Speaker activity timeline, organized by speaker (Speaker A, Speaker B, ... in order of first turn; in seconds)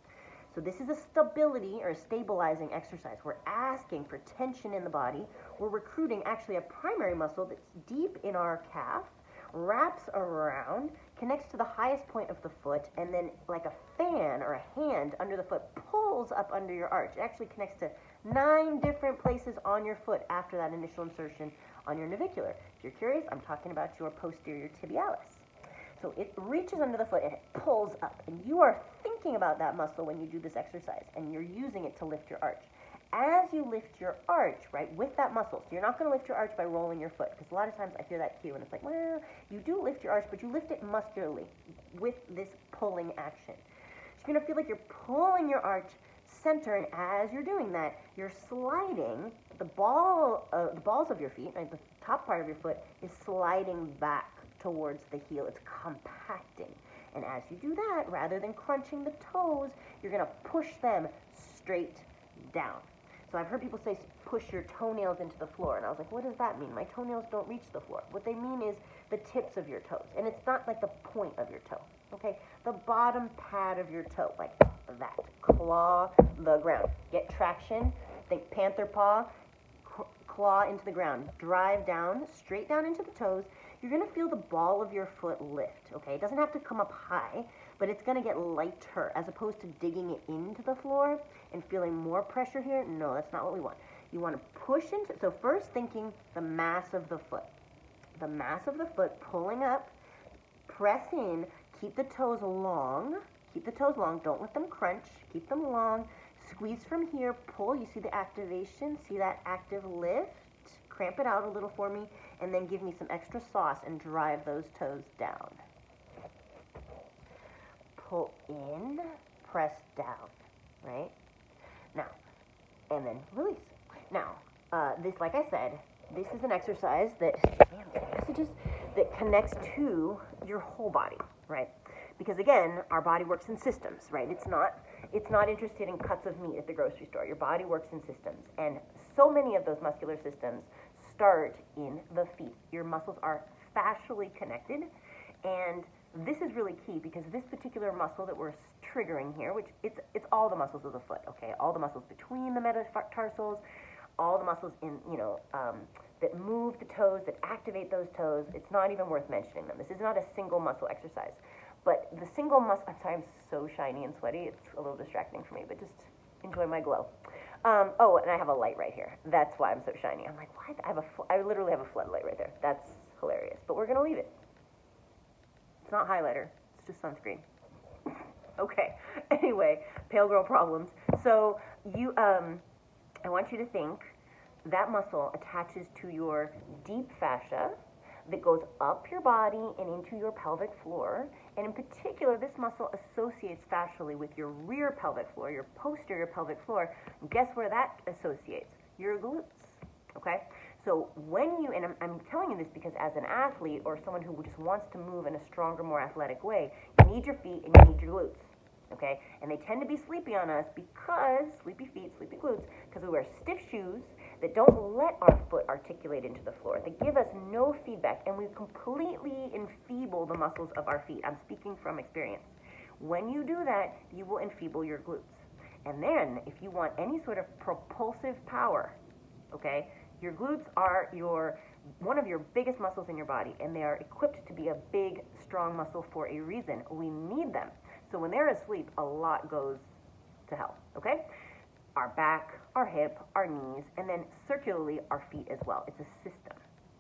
Speaker A: 0.5-43.6, 44.2-79.3, 79.8-97.5, 98.2-100.0, 100.7-115.6, 118.0-121.2, 122.9-144.9, 145.4-153.6, 154.2-167.1, 167.6-174.3, 175.8-177.4, 178.1-182.7, 183.2-187.8, 188.3-229.0, 229.5-239.9, 240.5-241.3, 241.9-246.6